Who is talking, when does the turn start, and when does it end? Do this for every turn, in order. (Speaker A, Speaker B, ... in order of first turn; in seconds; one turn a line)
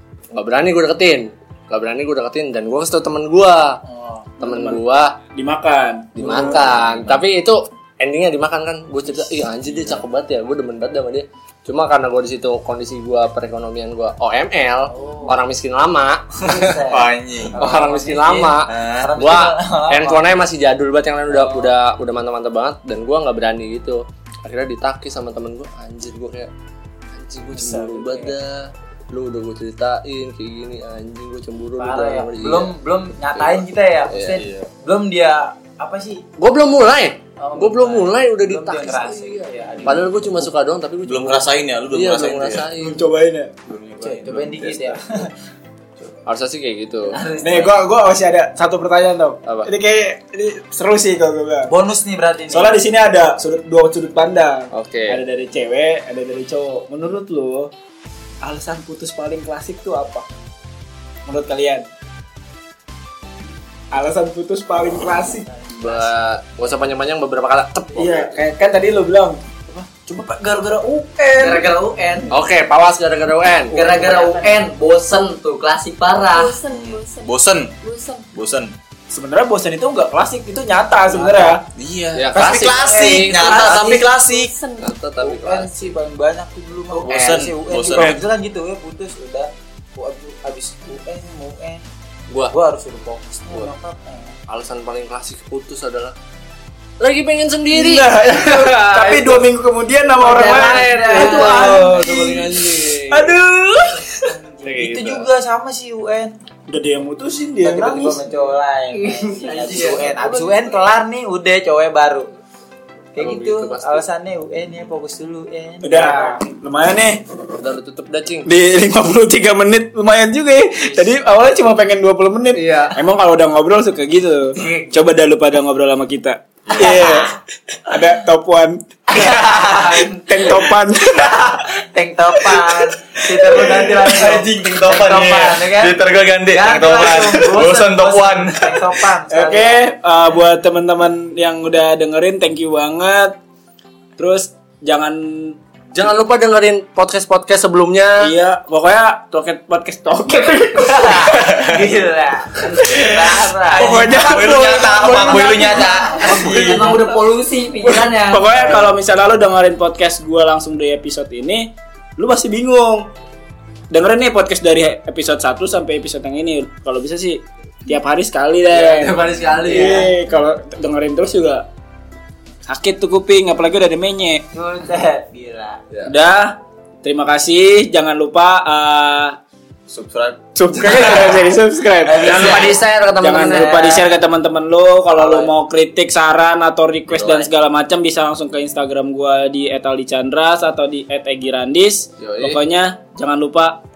Speaker A: 0.3-3.8
Speaker B: 3.9-4.2
Speaker A: 4.4-5.2
Speaker C: 4.4-7.0
Speaker A: 6.2-16.8
Speaker B: 14.9-15.4
Speaker B: 16.4-20.4
Speaker D: 16.9-17.6
Speaker A: 17.5-26.5
Speaker D: 18.7-19.1
Speaker B: 21.3-21.7
Speaker A: 27.1-32.8
Speaker B: 27.5-28.4
Speaker B: 31.8-36.2
Speaker A: 33.3-34.4
Speaker D: 34.4-34.7
Speaker A: 36.4-43.0
Speaker B: 37.4-40.5
Speaker D: 41.1-42.7
Speaker C: 42.8-43.5
Speaker D: 43.7-44.8
Speaker B: 44.0-45.3
Speaker C: 44.6-44.9
Speaker A: 46.3-47.2
Speaker B: 47.1-47.8
Speaker C: 47.4-51.7
Speaker A: 49.4-49.7
Speaker B: 51.7-52.8
Speaker C: 52.5-57.7
Speaker A: 54.7-55.2
Speaker C: 58.4-60.3
Speaker C: 61.3-61.9
Speaker C: 63.9-65.5
Speaker B: 65.4-66.1
Speaker A: 65.7-68.3
Speaker C: 68.0-71.7
Speaker E: 71.3-72.3
Speaker A: 72.3-74.0
Speaker E: 73.7-76.6
Speaker B: 73.8-74.6
Speaker F: 76.3-78.3
Speaker D: 76.7-77.7
Speaker D: 78.3-78.7
Speaker C: 79.1-81.6
Speaker E: 81.1-81.6
Speaker D: 81.8-84.5
Speaker A: 82.2-84.0
Speaker B: 82.7-84.2
Speaker F: 84.1-84.9
Speaker A: 84.8-85.9
Speaker B: 85.2-91.8
Speaker D: 87.0-88.2
Speaker C: 87.9-88.2
Speaker B: 92.5-94.3
Speaker A: 94.5-96.1
Speaker A: 97.0-99.5
Speaker C: 97.7-104.3
Speaker A: 100.3-103.4
Speaker B: 100.3-102.4
Speaker B: 104.2-106.3
Speaker A: 104.6-105.3
Speaker C: 106.7-108.2
Speaker B: 107.6-112.3
Speaker F: 109.0-110.9
Speaker B: 113.2-116.4
Speaker A: 113.2-114.1
Speaker C: 115.8-117.2
Speaker A: 117.6-118.5
Speaker C: 118.5-128.8
Speaker B: 120.8-121.1
Speaker A: 122.5-123.0
Speaker B: 124.5-125.0
Speaker B: 126.8-127.2
Speaker B: 129.1-130.6
Speaker C: 129.8-131.6
Speaker B: 131.2-136.0
Speaker C: 132.5-132.8
Speaker D: 133.7-138.8
Speaker B: 136.5-139.9
Speaker C: 139.3-143.4
Speaker C: 144.2-145.6
Speaker A: 145.9-148.3
Speaker C: 148.2-151.8
Speaker B: 150.8-153.9
Speaker C: 152.7-157.1
Speaker D: 153.8-156.9
Speaker A: 154.5-155.8
Speaker E: 156.0-158.7
Speaker C: 157.9-163.1
Speaker C: 163.9-171.7
Speaker A: 168.7-170.1
Speaker B: 169.7-170.0
Speaker C: 172.7-174.5
Speaker B: 174.5-175.8
Speaker C: 176.1-179.4
Speaker D: 179.9-180.4
Speaker C: 180.6-193.8
Speaker A: 180.8-181.4
Speaker B: 182.0-182.8
Speaker A: 182.2-184.0
Speaker B: 183.5-184.0
Speaker A: 185.2-185.5
Speaker A: 187.1-187.5
Speaker A: 192.2-192.6